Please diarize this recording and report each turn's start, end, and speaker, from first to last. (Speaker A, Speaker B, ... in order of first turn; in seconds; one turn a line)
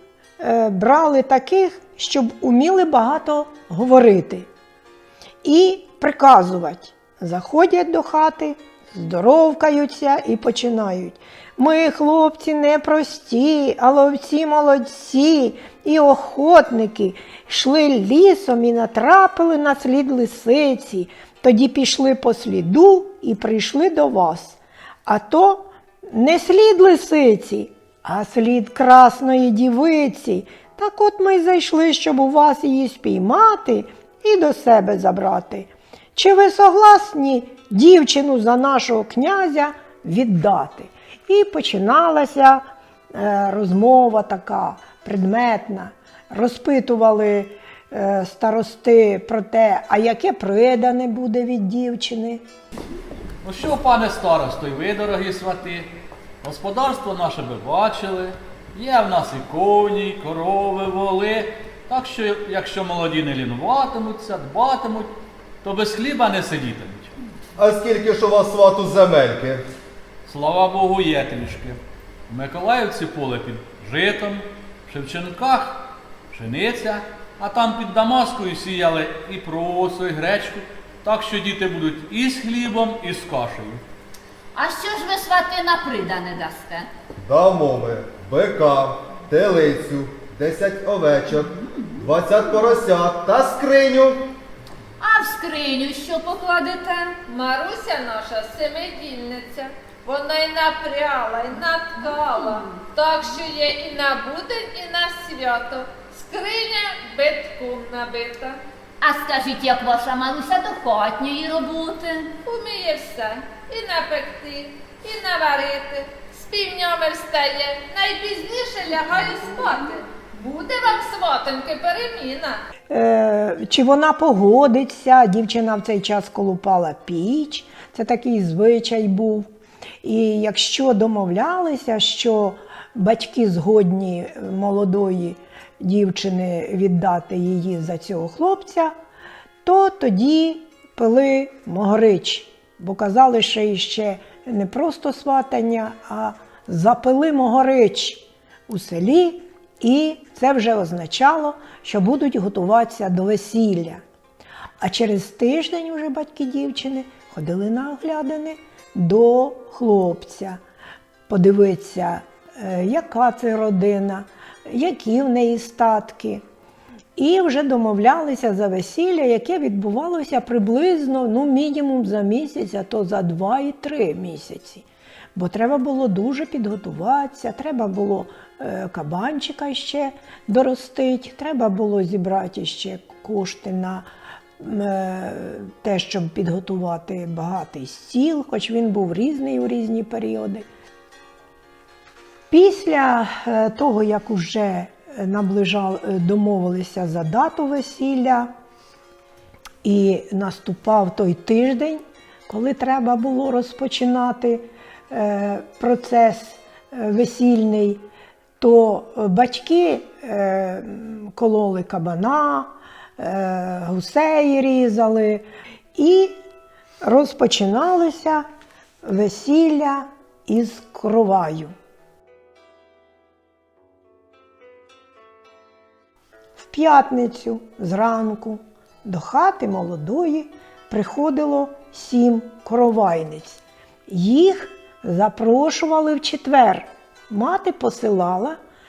Speaker A: 0.4-4.5
Speaker A: 5.4-52.4
Speaker B: 53.4-55.9
Speaker B: 56.4-67.2
Speaker C: 67.6-69.6
Speaker B: 70.2-83.8
Speaker D: 84.5-86.9
Speaker C: 87.2-94.3
Speaker D: 95.0-97.2
Speaker E: 97.2-108.6
Speaker D: 109.0-112.3
Speaker E: 112.4-122.6
Speaker A: 122.9-129.5
Speaker A: 130.0-138.9
Speaker A: 139.6-154.0
Speaker A: 154.8-160.6
Speaker A: 161.3-166.4
Speaker A: 167.2-184.1
Speaker A: 184.6-190.7
Speaker A: 192.5-198.5
Speaker A: 199.8-208.0
Speaker A: 208.6-215.4
Speaker A: 215.9-216.4
Speaker A: 217.0-218.4
Speaker A: 219.0-221.7
Speaker A: 226.6-238.6